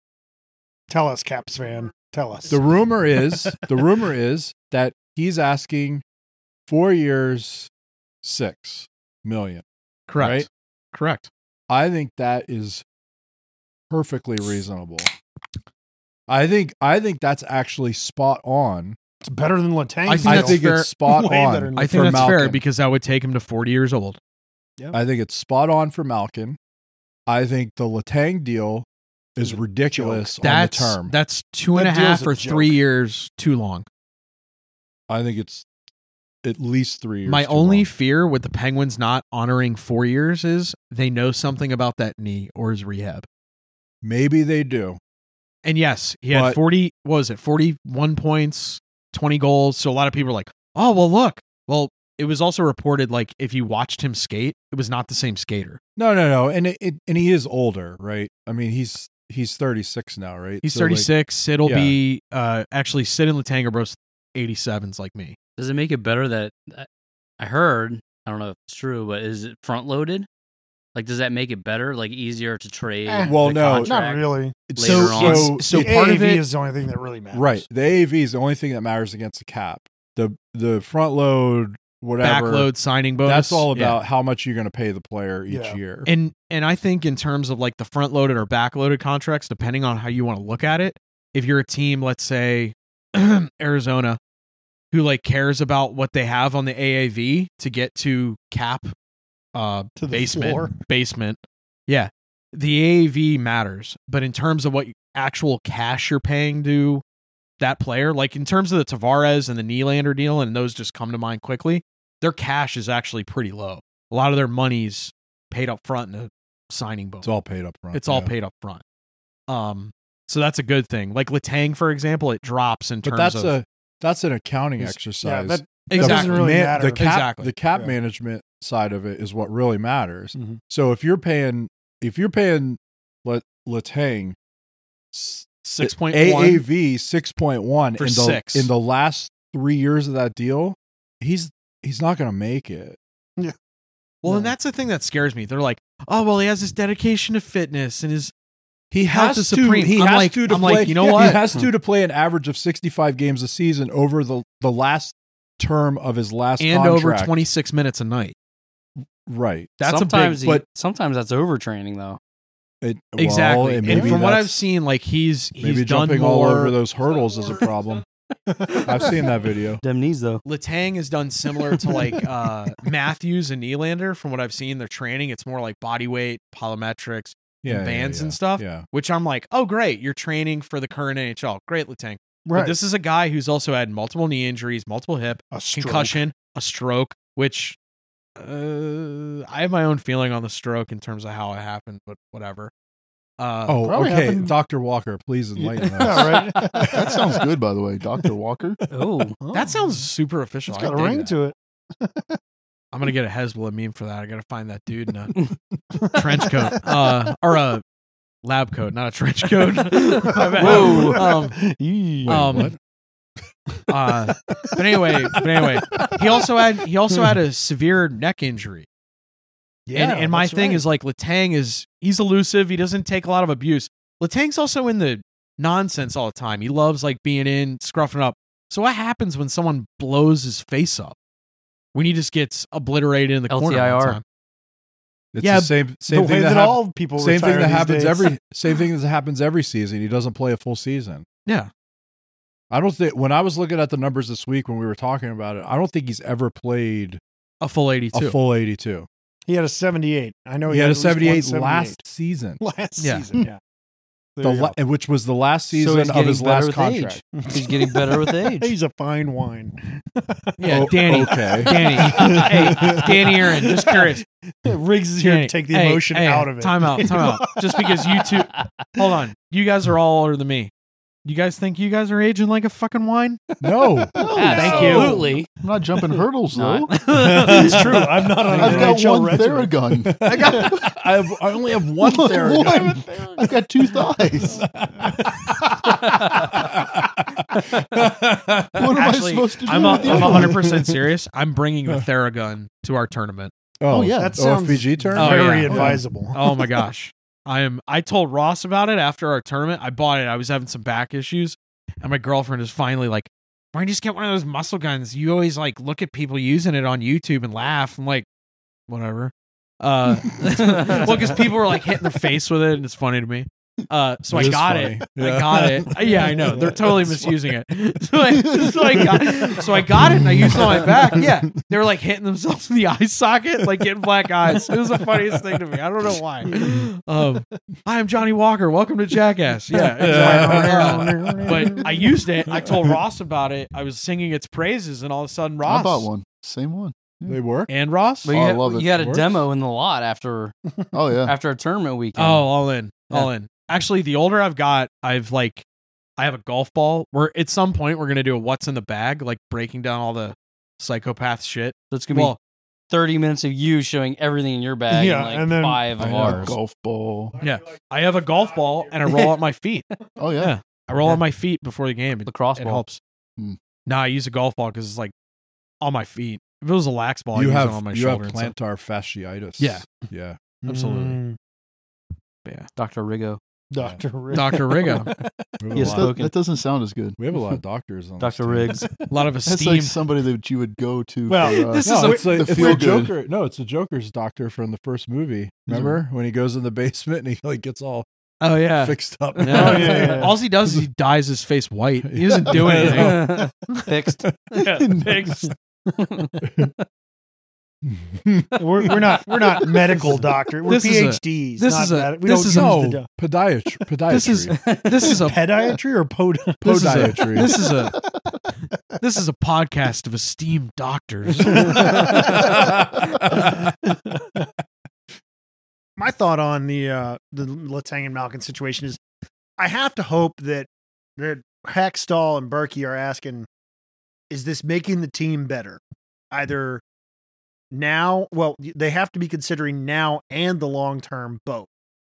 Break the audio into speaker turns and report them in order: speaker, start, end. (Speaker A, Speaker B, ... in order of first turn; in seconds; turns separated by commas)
Speaker A: 0.9-2.7, Speaker B: 2.5-6.0, Speaker A: 3.2-3.7, Speaker B: 6.7-7.7, Speaker B: 8.2-9.6, Speaker C: 10.1-11.3, Speaker B: 10.2-10.5, Speaker B: 11.7-12.8, Speaker B: 13.9-15.1, Speaker B: 16.3-19.0, Speaker A: 19.2-22.4, Speaker C: 20.1-21.2, Speaker B: 20.2-22.6, Speaker C: 21.8-24.2, Speaker B: 24.9-26.6, Speaker B: 27.3-28.9, Speaker B: 29.4-31.1, Speaker A: 29.4-30.3, Speaker C: 30.4-33.9, Speaker A: 31.7-32.8, Speaker B: 35.1-35.7, Speaker B: 36.4-37.9, Speaker C: 37.3-43.3, Speaker B: 44.0-45.0, Speaker C: 45.6-55.8, Speaker B: 46.3-46.6, Speaker B: 56.0-61.1, Speaker C: 60.6-65.4, Speaker B: 61.6-62.0, Speaker D: 65.6-66.9, Speaker D: 67.4-70.3, Speaker D: 71.0-75.7, Speaker A: 73.1-74.6, Speaker B: 73.3-74.0, Speaker B: 74.7-76.0, Speaker C: 74.8-76.4, Speaker A: 75.7-77.6, Speaker B: 77.3-82.7, Speaker C: 82.2-84.0, Speaker B: 83.2-86.1, Speaker A: 85.5-85.8, Speaker C: 86.1-94.2, Speaker C: 94.9-98.9, Speaker C: 99.5-107.0, Speaker A: 100.0-100.8, Speaker C: 107.6-117.3, Speaker B: 117.2-118.3, Speaker C: 117.9-118.8, Speaker C: 119.5-123.6, Speaker B: 123.0-134.4, Speaker A: 124.8-127.1, Speaker C: 125.9-127.5, Speaker A: 130.3-130.6, Speaker B: 135.1-143.0, Speaker C: 135.6-136.6, Speaker C: 138.0-138.7, Speaker C: 144.2-148.3, Speaker A: 144.2-144.5, Speaker B: 148.9-157.4, Speaker C: 149.1-151.4, Speaker A: 150.8-151.7, Speaker C: 156.6-158.3, Speaker B: 159.3-159.8, Speaker C: 159.8-160.5, Speaker D: 159.8-162.2, Speaker B: 162.8-164.6, Speaker C: 163.2-166.8, Speaker A: 163.9-164.2, Speaker B: 165.6-168.0, Speaker D: 168.7-169.2, Speaker A: 168.7-169.1, Speaker B: 168.8-169.8, Speaker D: 169.8-170.4, Speaker C: 170.5-187.8, Speaker B: 177.6-178.8, Speaker A: 182.5-182.8, Speaker A: 185.5-186.2, Speaker C: 188.4-192.7, Speaker C: 193.4-193.9, Speaker B: 193.7-196.9, Speaker A: 193.9-194.5, Speaker A: 195.6-197.4, Speaker E: 196.7-198.8, Speaker D: 198.9-199.4, Speaker A: 199.4-200.1, Speaker C: 199.5-201.3, Speaker A: 200.7-202.4, Speaker C: 202.9-205.3, Speaker A: 206.0-206.9, Speaker C: 206.1-207.8, Speaker C: 208.4-211.6, Speaker A: 210.0-212.4, Speaker D: 210.6-211.3, Speaker B: 212.2-212.8, Speaker C: 212.3-212.7, Speaker C: 213.9-218.9, Speaker A: 214.5-216.4, Speaker A: 219.9-220.8, Speaker C: 219.9-231.2, Speaker C: 231.9-234.2, Speaker D: 233.5-234.2, Speaker B: 235.3-241.3, Speaker C: 235.4-235.7, Speaker A: 236.1-238.3, Speaker B: 242.7-247.2, Speaker C: 247.6-248.4, Speaker B: 248.1-249.1, Speaker A: 249.5-252.0, Speaker B: 250.7-252.6, Speaker A: 252.6-253.6, Speaker C: 253.0-253.3, Speaker A: 254.4-254.8, Speaker B: 254.4-257.2, Speaker D: 255.7-258.7, Speaker A: 257.4-268.4, Speaker C: 260.6-264.2, Speaker B: 260.7-263.1, Speaker C: 265.2-270.7, Speaker C: 271.2-273.4, Speaker B: 273.6-274.2, Speaker E: 274.2-277.0, Speaker D: 274.2-275.5, Speaker A: 274.4-275.1, Speaker C: 274.5-275.2, Speaker D: 276.5-276.9, Speaker C: 276.9-277.6, Speaker A: 277.1-280.8, Speaker B: 277.2-278.9, Speaker E: 278.5-280.9, Speaker D: 278.5-278.9, Speaker B: 280.1-283.0, Speaker E: 282.0-284.7, Speaker A: 282.6-283.0, Speaker B: 284.4-288.9, Speaker A: 285.1-285.9, Speaker E: 288.8-290.7, Speaker C: 288.9-293.5, Speaker B: 290.0-290.9, Speaker B: 293.8-296.0, Speaker E: 293.9-294.4, Speaker A: 294.2-296.4, Speaker C: 295.1-308.3, Speaker C: 308.9-336.1, Speaker B: 310.7-311.0, Speaker B: 314.3-316.9, Speaker A: 316.0-317.1, Speaker E: 318.3-321.3, Speaker B: 320.2-320.6, Speaker A: 326.4-326.8, Speaker A: 329.8-332.2, Speaker B: 330.0-331.7, Speaker B: 332.5-332.9, Speaker E: 335.6-337.4, Speaker B: 337.3-337.7, Speaker C: 337.7-338.3, Speaker D: 338.2-340.5, Speaker E: 338.3-339.2, Speaker B: 338.9-339.4, Speaker E: 340.9-341.3, Speaker D: 341.2-342.5, Speaker C: 342.2-345.6, Speaker C: 346.2-352.4, Speaker D: 351.9-352.4, Speaker D: 352.9-356.6, Speaker A: 354.9-355.9, Speaker B: 356.0-356.6, Speaker E: 356.0-357.4, Speaker C: 357.4-363.0, Speaker D: 359.1-359.3, Speaker E: 360.2-360.5, Speaker D: 362.3-362.8, Speaker C: 363.9-365.1, Speaker C: 365.8-368.5, Speaker B: 367.3-370.4, Speaker C: 369.6-369.9, Speaker A: 370.6-371.4, Speaker C: 370.7-371.2, Speaker D: 372.8-373.4, Speaker A: 373.7-375.2, Speaker C: 374.3-375.1, Speaker B: 375.6-376.1, Speaker D: 375.7-376.3, Speaker E: 375.8-377.4, Speaker B: 377.2-378.9, Speaker D: 378.2-378.9, Speaker C: 379.1-380.0, Speaker E: 379.4-383.1, Speaker A: 381.3-382.9, Speaker C: 381.6-382.6, Speaker B: 381.9-388.1, Speaker E: 385.7-386.0, Speaker C: 388.4-393.2, Speaker B: 388.8-390.9, Speaker A: 389.5-390.4, Speaker B: 392.0-393.3, Speaker D: 392.8-394.3, Speaker C: 394.5-395.5, Speaker E: 394.7-395.4, Speaker A: 395.5-396.3, Speaker D: 396.0-396.3, Speaker B: 396.4-396.7, Speaker B: 397.8-400.1, Speaker A: 398.6-403.1, Speaker C: 400.7-402.8, Speaker B: 402.4-404.6, Speaker C: 404.1-405.5, Speaker D: 404.6-405.1, Speaker A: 405.2-408.0, Speaker B: 406.6-407.6, Speaker C: 406.7-407.9, Speaker C: 409.0-413.5, Speaker A: 411.4-414.4, Speaker B: 411.5-413.7, Speaker A: 416.0-419.0, Speaker A: 419.6-423.5, Speaker A: 424.3-425.8, Speaker A: 426.3-426.8, Speaker A: 427.7-431.7